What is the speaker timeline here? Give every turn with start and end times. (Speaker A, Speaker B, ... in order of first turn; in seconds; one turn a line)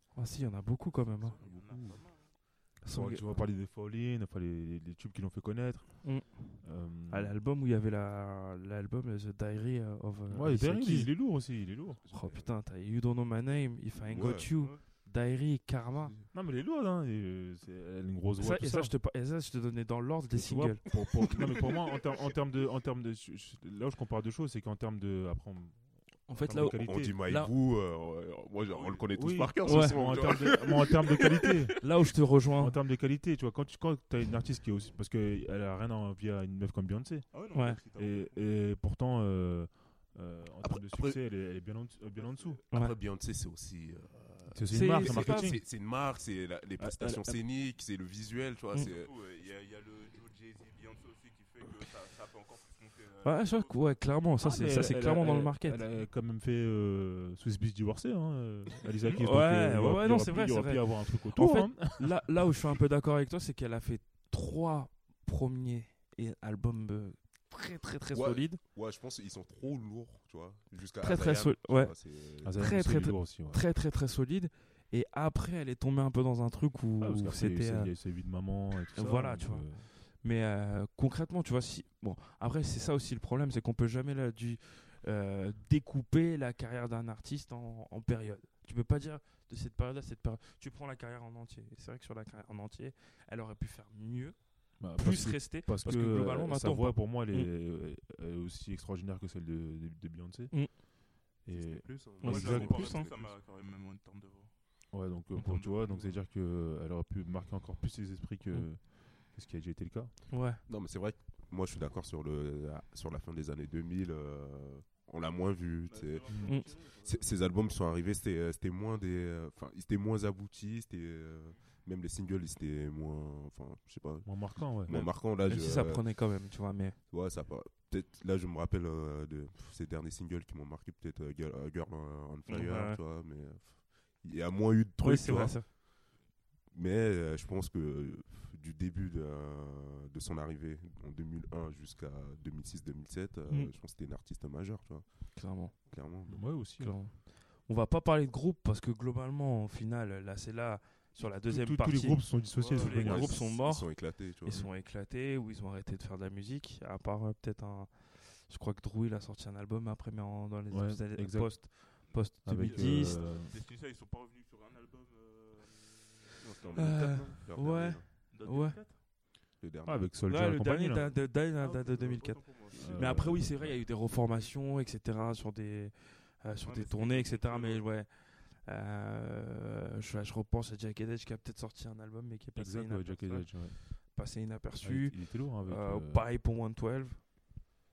Speaker A: 0.1-1.4
Speaker B: 1.2-2.3
Speaker C: 1.4-7.4
Speaker A: 2.8-3.3
Speaker A: 6.0-16.1
Speaker C: 10.3-12.0
Speaker D: 12.1-12.5
Speaker D: 14.1-14.6
Speaker B: 14.6-14.8
Speaker C: 16.3-19.0
Speaker A: 18.4-20.8
Speaker C: 20.3-27.2
Speaker A: 26.3-27.5
Speaker D: 26.7-32.1
Speaker B: 28.7-29.1
Speaker C: 29.1-31.9
Speaker A: 29.6-30.0
Speaker B: 30.1-30.4
Speaker A: 31.8-32.8
Speaker C: 32.6-42.6
Speaker B: 37.3-38.5
Speaker A: 37.5-37.8
Speaker D: 40.6-41.2
Speaker B: 42.2-42.6
Speaker D: 42.7-49.1
Speaker C: 44.5-45.7
Speaker A: 44.7-45.6
Speaker C: 46.8-47.4
Speaker A: 46.9-47.3
Speaker B: 48.9-54.1
Speaker A: 53.2-55.9
Speaker C: 54.4-62.5
Speaker A: 59.1-68.6
Speaker D: 68.1-72.7
Speaker A: 71.0-97.5
Speaker C: 72.4-73.6
Speaker C: 77.0-79.9
Speaker C: 94.8-102.9
Speaker D: 101.5-103.3
Speaker A: 102.2-103.1
Speaker B: 102.2-106.2
Speaker C: 104.9-110.2
Speaker A: 110.3-110.6
Speaker D: 110.6-136.1
Speaker B: 115.9-117.3
Speaker C: 116.3-116.6
Speaker A: 116.5-116.7
Speaker C: 124.2-124.9
Speaker A: 124.9-127.0
Speaker A: 132.5-133.0
Speaker A: 135.0-135.7
Speaker D: 136.7-146.6
Speaker A: 145.4-163.2
Speaker C: 146.3-147.0
Speaker C: 151.4-153.4
Speaker B: 152.5-153.2
Speaker D: 152.9-154.7
Speaker C: 160.7-163.6
Speaker B: 162.5-167.1
Speaker D: 166.4-168.1
Speaker A: 166.8-168.8
Speaker B: 168.3-169.0
Speaker D: 169.6-170.4
Speaker C: 169.8-171.1
Speaker A: 170.3-187.6
Speaker B: 171.0-173.4
Speaker C: 172.7-173.9
Speaker B: 176.6-177.9
Speaker C: 182.6-183.9
Speaker C: 184.8-186.3